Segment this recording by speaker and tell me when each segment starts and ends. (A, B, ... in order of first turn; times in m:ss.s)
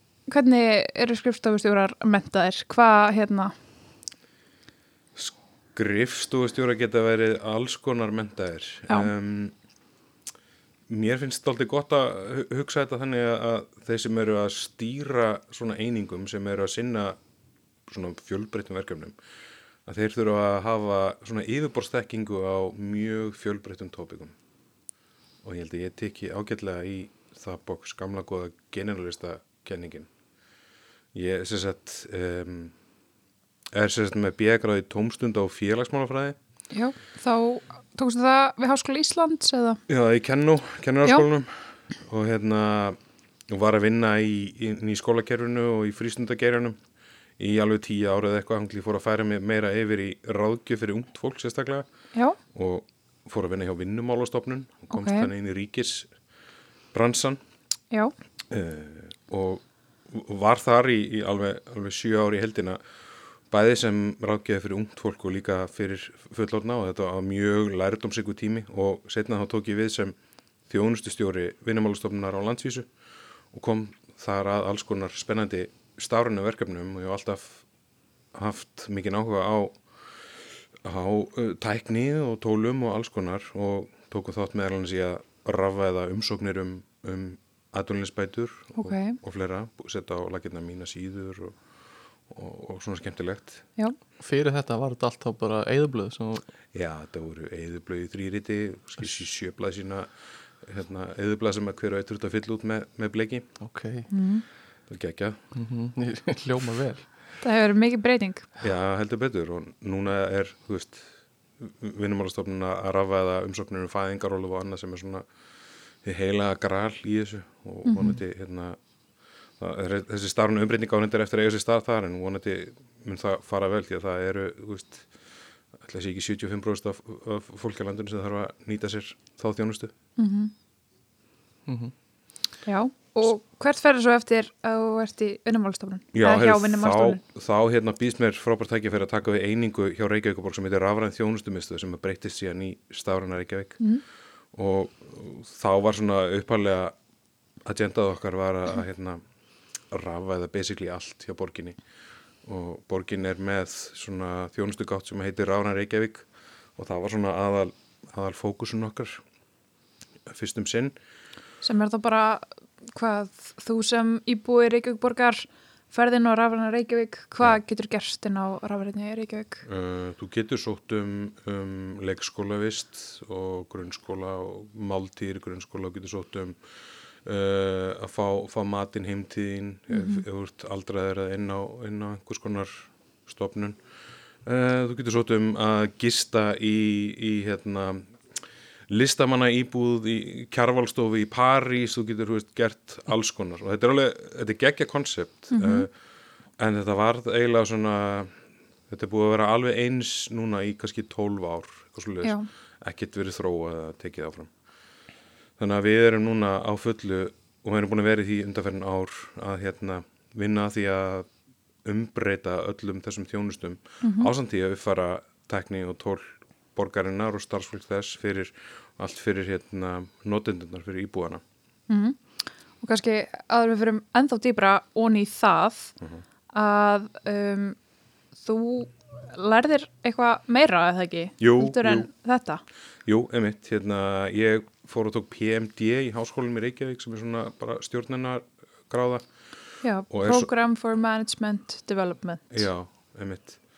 0:00.3-0:03.5 A
0:05.2-0:09.5 B
0:10.9-0:17.2 B
0:17.9-0:19.2 B
0:19.8-0:24.3 B
0:25.4-0:30.1 B
0:31.1-0:32.8 B
0:33.7-0:36.4 B
0:36.7-0:39.8 A
0:39.9-0:43.0 B
0:43.5-0:46.8 B
0:47.4-0:51.9 B
0:52.5-0:56.1 B
0:54.9-0:55.3 A
0:56.9-0:57.4 B
0:58.5-1:02.8 B
1:03.5-1:10.2 B
1:10.7-1:12.9 B
1:13.5-1:17.6 B
1:18.3-1:19.8 B
1:20.8-1:31.6 B
1:28.8-1:29.2 A
1:32.3-1:33.6 B
1:34.2-1:36.4 C
1:36.7-1:43.5 B
1:43.6-1:44.1 C
1:44.1-1:44.4 A
1:44.9-1:45.4 B
1:45.5-1:47.1 C
1:47.4-1:48.5 A
1:48.6-1:55.2 B
1:56.0-1:58.8 B
1:57.8-1:58.2 A
1:59.6-2:05.1 B
2:05.8-2:09.9 B
2:10.2-2:10.5 A
2:11.7-2:11.9 C
2:12.6-2:17.2 A
2:16.1-2:23.8 B
2:24.5-2:27.0 B
2:27.6-2:29.2 B
2:29.9-2:31.8 B
2:32.4-2:39.2 B
2:40.2-2:40.9 B
2:41.6-2:49.6 A
2:49.6-2:56.6 B
2:57.2-3:03.8 B
2:59.9-3:00.2 A
3:04.4-3:08.1 B
3:08.9-3:15.9 B
3:15.5-3:15.9 A
3:16.6-3:18.4 B
3:18.9-3:24.5 B
3:22.2-3:22.5 A
3:25.6-3:31.3 B
3:31.8-3:41.4 B
3:34.0-3:34.3 A
3:41.9-3:42.2 A
3:42.8-3:45.9 A
3:46.5-3:47.8 A
3:48.4-3:52.6 A
3:51.4-3:52.1 B
3:53.0-3:59.2 B
3:59.8-4:02.6 A
4:00.1-4:00.5 B
4:02.5-4:03.6 B